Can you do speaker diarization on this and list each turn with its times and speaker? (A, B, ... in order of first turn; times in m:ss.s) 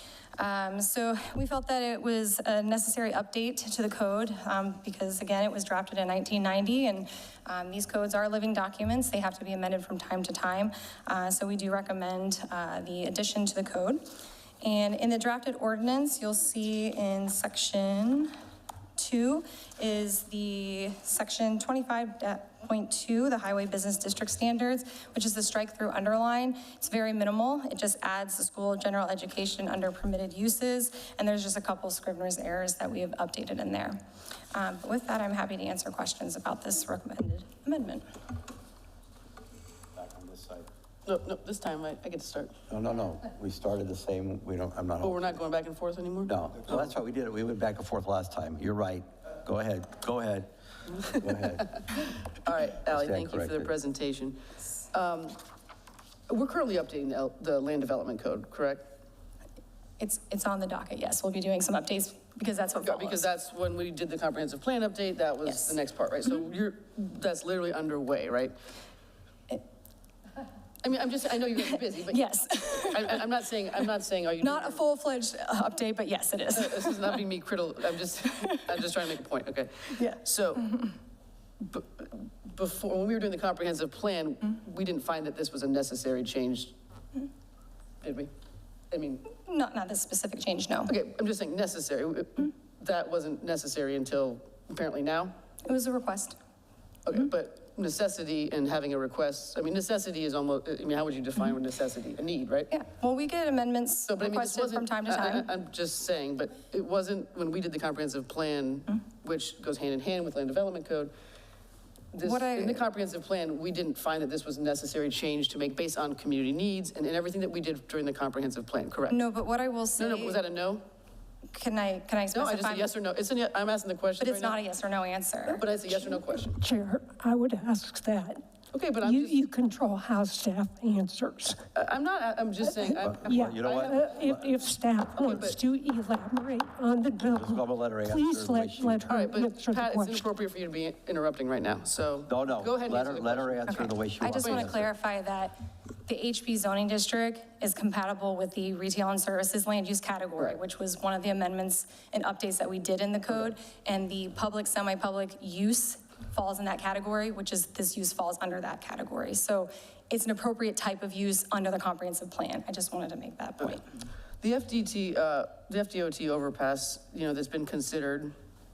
0:00.4-0:14.0 A
0:14.6-0:18.3 A
0:19.0-0:34.0 A
0:34.5-0:38.0 A
0:40.0-0:40.7 B
0:41.1-0:42.6 C
0:42.7-0:45.4 B
0:45.0-0:46.3 C
0:46.3-0:51.8 B
0:52.4-0:54.4 C
0:52.9-0:53.7 B
0:54.9-0:55.4 C
0:56.3-0:58.8 C
1:00.0-1:03.2 A
1:02.8-1:08.6 C
1:10.8-1:14.8 C
1:12.1-1:13.2 A
1:14.4-1:17.2 A
1:16.6-1:20.7 C
1:18.4-1:18.7 A
1:20.0-1:20.9 A
1:21.6-1:26.7 C
1:28.0-1:28.3 C
1:28.9-1:29.2 C
1:29.3-1:30.9 A
1:30.9-1:35.3 C
1:35.6-1:36.4 A
1:37.1-1:42.7 C
1:42.7-1:45.5 A
1:44.1-1:51.1 C
1:52.1-1:59.2 C
1:52.2-1:52.8 A
1:59.1-2:00.4 A
2:00.0-2:00.8 C
2:01.5-2:02.9 A
2:02.3-2:04.6 C
2:04.2-2:05.6 A
2:05.5-2:06.6 C
2:06.5-2:08.4 D
2:08.7-2:09.4 C
2:09.0-2:11.6 D
2:11.8-2:14.0 C
2:12.8-2:20.3 D
2:13.0-2:14.5 B
2:15.2-2:15.6 C
2:17.2-2:19.0 B
2:19.1-2:23.9 C
2:22.3-2:24.9 B
2:24.2-2:25.6 A
2:24.4-2:24.8 C
2:26.1-2:43.9 A
2:44.4-2:48.3 C